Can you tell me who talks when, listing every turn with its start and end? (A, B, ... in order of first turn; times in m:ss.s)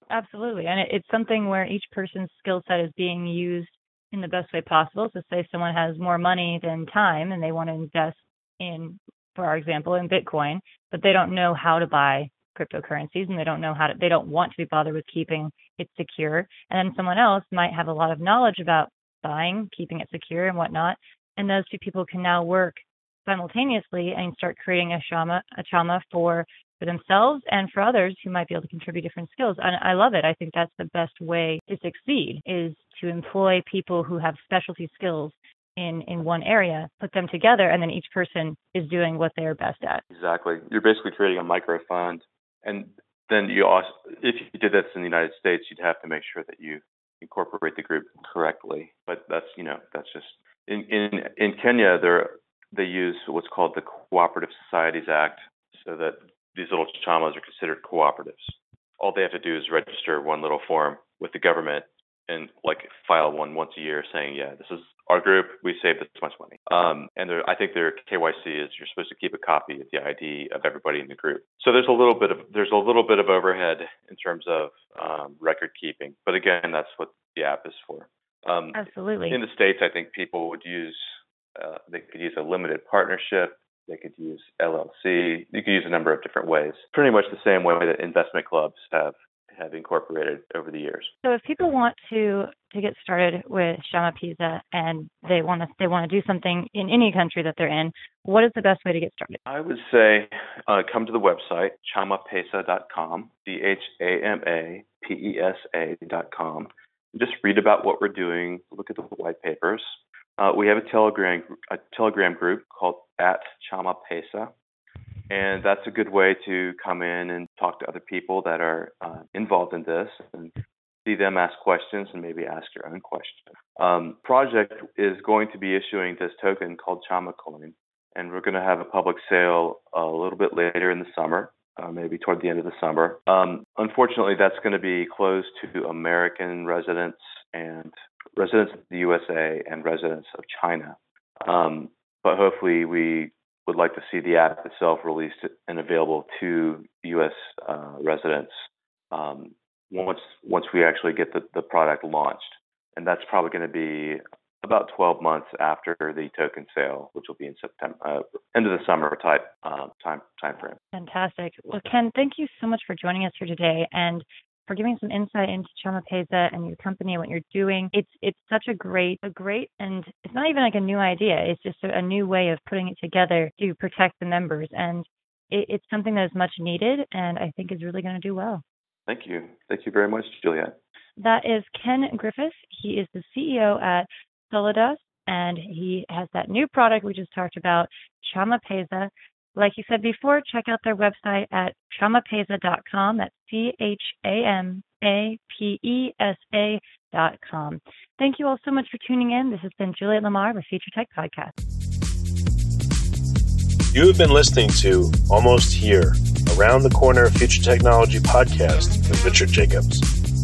0:00.1-0:40.0 A
0:40.1-1:18.8 B
1:18.7-1:19.4 A
1:19.3-1:21.0 B
1:21.6-1:31.1 B
1:31.2-1:39.4 A
1:39.5-1:54.5 B
1:55.3-2:00.5 B
2:01.0-2:28.5 B
2:29.1-2:40.8 B
2:40.9-2:58.6 A
2:59.1-3:00.7 B
3:01.2-3:21.5 A
3:23.9-3:30.1 C